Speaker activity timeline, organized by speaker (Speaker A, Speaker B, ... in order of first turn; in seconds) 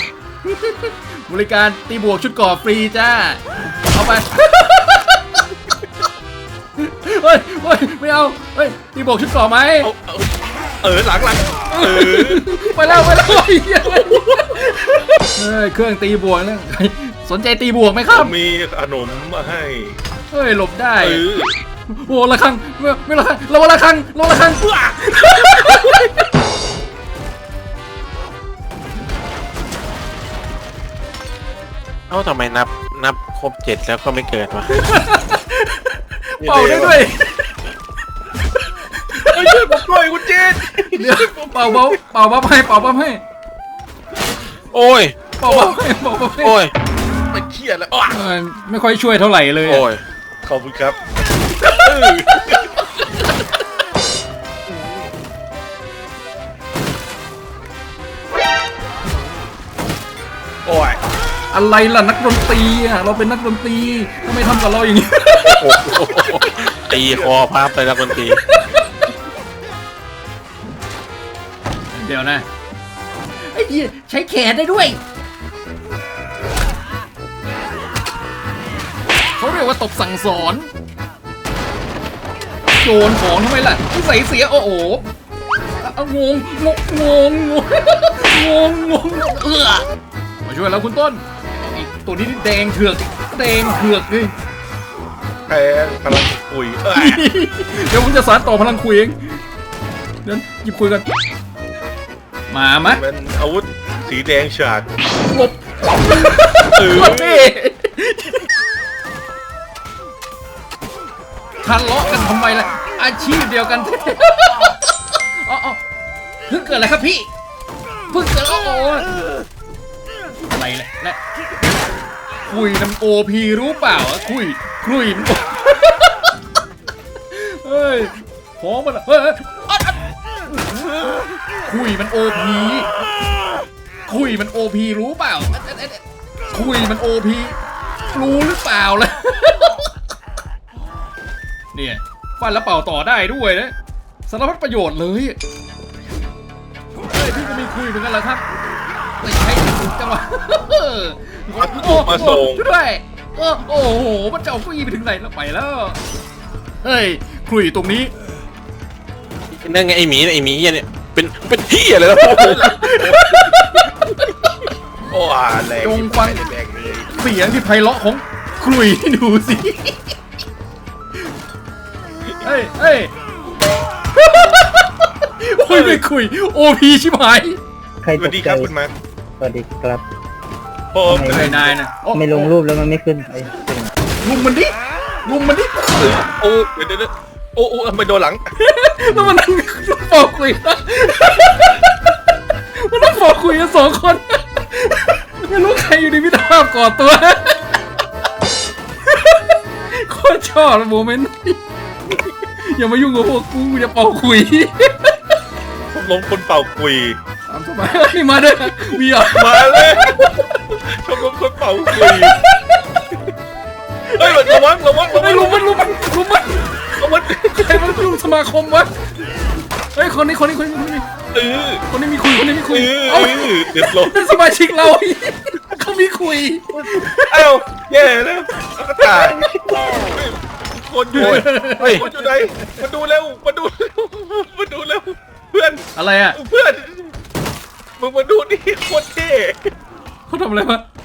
Speaker A: 0.4-5.4, 6.8-9.9, 11.7-18.3, 20.3-21.2, 21.9-26.2, 34.7-37.5, 38.5-39.8, 40.9-43.2, 45.4-46.6, 48.1-49.9, 61.5-65.7, 68.2-69.1, 71.9-72.5, 73.4-75.0, 79.4-80.7, 82.8-85.1, 85.8-89.9, 90.5-94.3, 96.9-99.4, 100.2-101.1, 102.5-103.0, 105.3-108.5, 111.6-115.8, 116.5-117.3, 118.1-119.2, 120.5-121.2, 122.5-126.2, 127.3-130.0, 131.6-133.0, 134.1-137.6, 138.1-139.9, 141.7-143.7, 144.3-145.4, 147.0-148.4, 149.2-156.0, 156.8-158.1, 162.3-163.6, 165.8-166.5, 167.1-170.1, 172.4-173.1, 174.2-177.6, 181.2-182.5, 184.2-184.7, 185.2-186.2, 188.6-191.8, 192.8-197.6, 199.1-201.6, 202.6-205.1, 207.5-209.9, 211.9-212.4, 214.1-218.9, 219.9-221.1, 221.9-227.5, 231.1-232.6, 235.9-236.4, 240.3-240.8
Speaker B: 9.8-14.6, 18.1-20.0, 21.0-21.5, 39.1-41.3, 45.5-45.8, 47.3-48.1, 50.4-51.0, 51.8-52.2, 60.6-61.0, 66.1-66.4, 67.0-67.5, 95.5-97.2, 102.9-104.9, 106.7-107.5, 151.6-152.6, 162.2-163.3, 165.1-167.1, 175.7-176.0, 178.2-178.9, 180.9-181.8, 186.2-188.5, 205.9-207.2, 209.3-212.4, 214.2-215.7, 217.0-218.1, 221.3-221.8, 222.7-224.3, 227.3-237.1, 238.0-239.7
Speaker C: 32.1-34.7, 36.4-37.0, 44.7-45.4, 46.4-46.7, 49.6-50.0, 51.6-52.3, 65.4-68.4, 159.5-162.7, 231.2-232.0
Speaker D: 178.0-178.7, 179.4-180.0, 181.1-181.5, 182.1-183.9